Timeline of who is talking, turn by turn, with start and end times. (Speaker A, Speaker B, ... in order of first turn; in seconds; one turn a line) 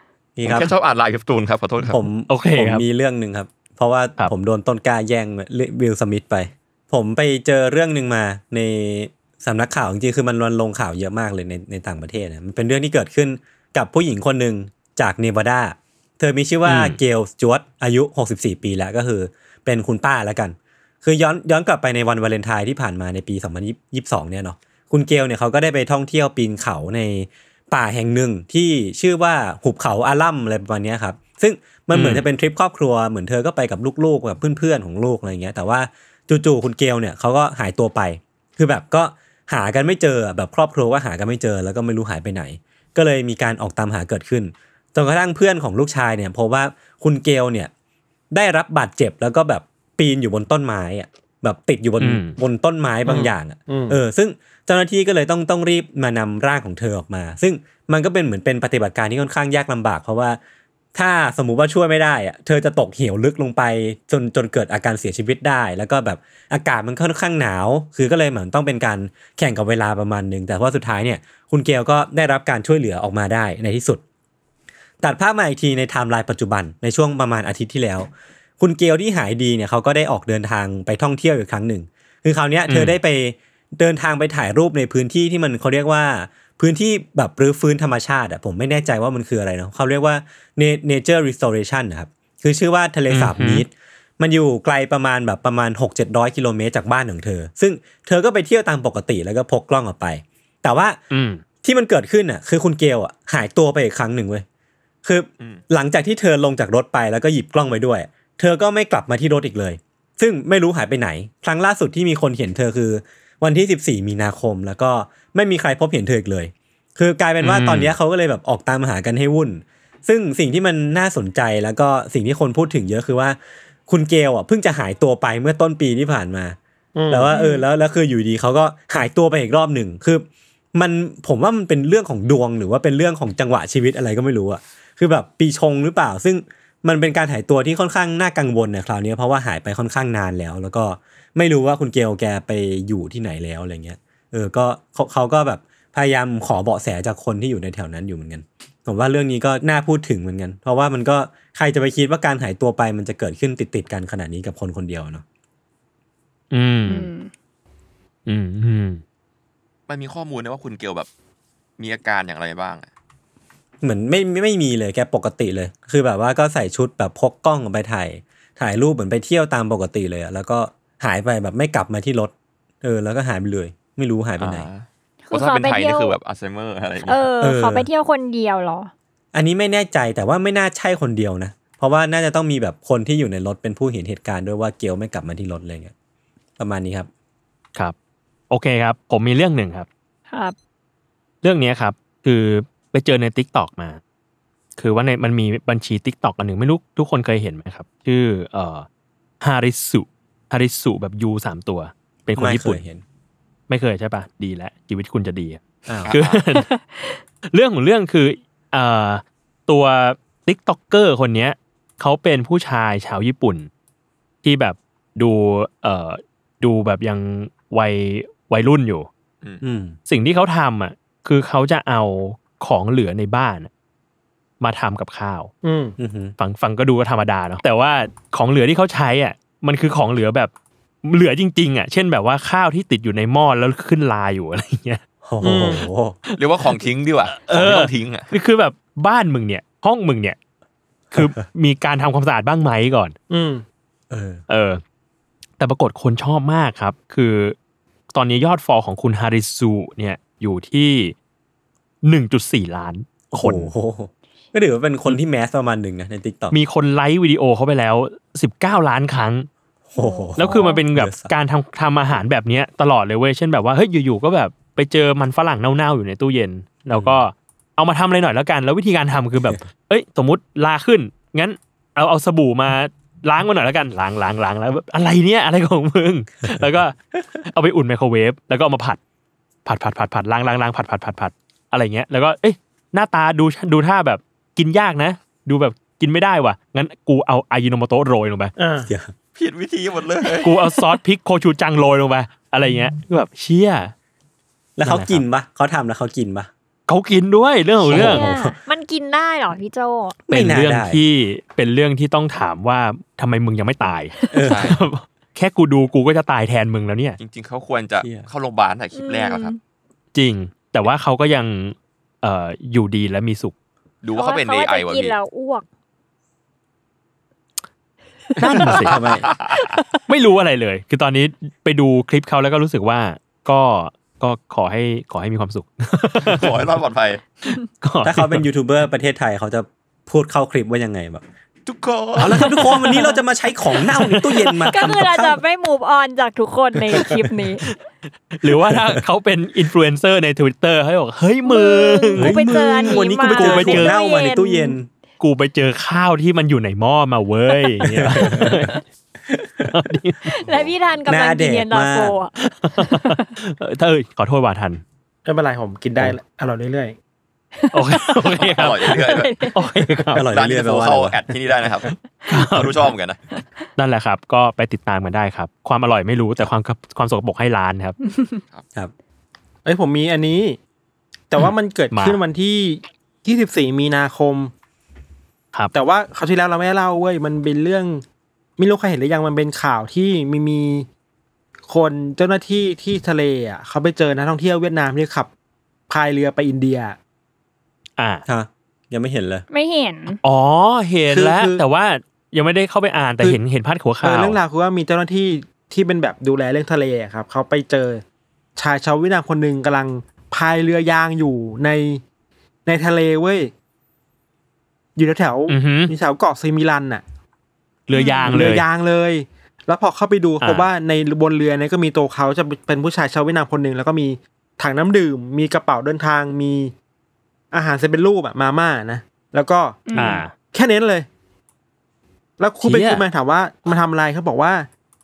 Speaker A: 0.4-0.7
Speaker B: 0.4-2.0
Speaker A: 1.8-47.7
Speaker C: 2.3-2.9
Speaker C: 16.6-17.0
Speaker C: 31.9-32.3
Speaker A: 48.3-60.4
Speaker C: 52.0-52.4
Speaker D: 53.0-54.0
Speaker A: 60.9-74.0
Speaker A: 75.0-101.0
Speaker C: 82.7-83.0
Speaker C: 93.1-93.6
Speaker C: 101.1-101.4
Speaker A: 101.6-104.4
Speaker A: 105.0-126.6
Speaker C: 117.4-117.9
Speaker D: 126.9-127.3
Speaker A: 127.1-155.2
Speaker E: 127.3-127.7
Speaker C: 156.5-157.1
Speaker E: 156.9-157.3
Speaker C: 158.2-159.0
Speaker B: 159.9-161.1
Speaker B: 161.8-162.9
Speaker A: 163.8-174.7
Speaker B: 174.4-177.3
Speaker E: 175.3-176.2
Speaker E: 177.0-178.9
Speaker A: 177.4-177.9
Speaker A: 179.3-185.9
Speaker A: 186.6-187.1
Speaker C: 188.5-189.9
Speaker C: 191.4-194.0
Speaker C: 194.8-198.9
Speaker C: 199.4-202.8
Speaker A: 202.4-203.0
Speaker C: 203.7-206.7
Speaker A: 205.9-206.1
Speaker B: 206.1-206.4
Speaker E: 206.6-207.2
Speaker C: 207.5-213.7
Speaker C: 214.4-219.1
Speaker A: 219.6-220.0
Speaker C: 220.1-223.7
Speaker C: 224.6-225.5
Speaker D: 225.6-225.9
Speaker A: 226.0-226.4
Speaker C: 226.4-230.5
Speaker C: 231.0-235.0
Speaker A: 235.2-236.2
Speaker D: 235.4-235.9
Speaker B: 236.4-238.3
Speaker C: 236.6-240.4
Speaker A: 241.1-241.4
Speaker C: 241.1-243.1
Speaker D: 243.3-243.6
Speaker A: 244.1-244.4
Speaker C: 244.5-244.8
Speaker C: 245.6-247.5
Speaker C: 248.1-251.1
Speaker C: 252.0-253.7
Speaker A: 253.3-256.6
Speaker C: 256.5-259.5
Speaker A: 259.9-261.3
Speaker E: 259.9-260.8
Speaker C: 260.4-279.0
Speaker A: 266.9-267.2
Speaker A: 276.5-276.8
Speaker C: 279.6-288.5
Speaker D: 288.6-288.9
Speaker A: 288.9-289.1
Speaker B: 289.4-290.5
Speaker C: 290.4-293.9
Speaker A: 294.8-296.5
Speaker C: 294.8-295.2
Speaker C: 296.9-298.2
Speaker E: 297.8-300.2
Speaker A: 297.9-298.6
Speaker A: 300.3-301.0
Speaker C: 300.3-307.2
Speaker E: 304.2-304.5
Speaker A: 304.3-304.8
Speaker B: 304.5-304.8
Speaker B: 307.2-309.5
Speaker A: 308.0-308.2
Speaker E: 308.9-309.6
Speaker C: 310.1-313.5
Speaker B: 314.0-315.1
Speaker E: 314.1-315.6
Speaker C: 318.4-319.0
Speaker A: 318.6-319.3
Speaker B: 318.8-319.6
Speaker C: 320.1-326.6
Speaker B: 326.2-327.2
Speaker C: 327.5-328.5
Speaker A: 328.0-331.2
Speaker B: 331.6-332.5
Speaker A: 332.2-335.4
Speaker C: 332.4-333.1
Speaker C: 333.8-334.7
Speaker E: 334.7-337.6
Speaker A: 336.9-337.2
Speaker C: 338.3-342.4
Speaker A: 338.4-339.0
Speaker E: 341.4-344.8
Speaker A: 342.1-344.9
Speaker C: 343.3-343.9
Speaker C: 345.2-348.8
Speaker A: 347.8-348.7
Speaker A: 349.3-349.9
Speaker C: 349.7-350.3
Speaker E: 350.2-353.3
Speaker A: 351.1-352.1
Speaker C: 352.4-354.8
Speaker D: 355.2-356.9
Speaker E: 357.6-359.6
Speaker C: 357.7-358.9
Speaker B: 358.6-359.3
Speaker C: 359.5-360.3
Speaker A: 360.1-361.2
Speaker B: 360.3-361.9
Speaker C: 362.3-362.9
Speaker B: 362.5-363.2
Speaker C: 363.8-368.0
Speaker E: 368.1-368.4
Speaker D: 369.6-370.6
Speaker D: 371.3-374.5
Speaker C: 371.4-372.2
Speaker D: 375.7-378.0
Speaker D: 378.6-380.9
Speaker D: 381.7-385.3
Speaker D: 385.9-387.0
Speaker C: 388.0-388.2
Speaker A: 388.2-389.4
Speaker E: 389.5-390.2
Speaker C: 390.2-394.4
Speaker D: 391.1-391.6
Speaker D: 394.0-398.0
Speaker D: 398.6-402.0
Speaker D: 402.6-403.5
Speaker D: 404.9-407.0
Speaker C: 405.5-405.9
Speaker C: 407.9-408.6
Speaker E: 407.9-408.5
Speaker D: 408.3-416.7
Speaker C: 410.4-410.7
Speaker D: 417.5-421.1
Speaker E: 419.9-420.3
Speaker C: 419.9-420.3
Speaker D: 422.4-424.7
Speaker C: 422.6-423.0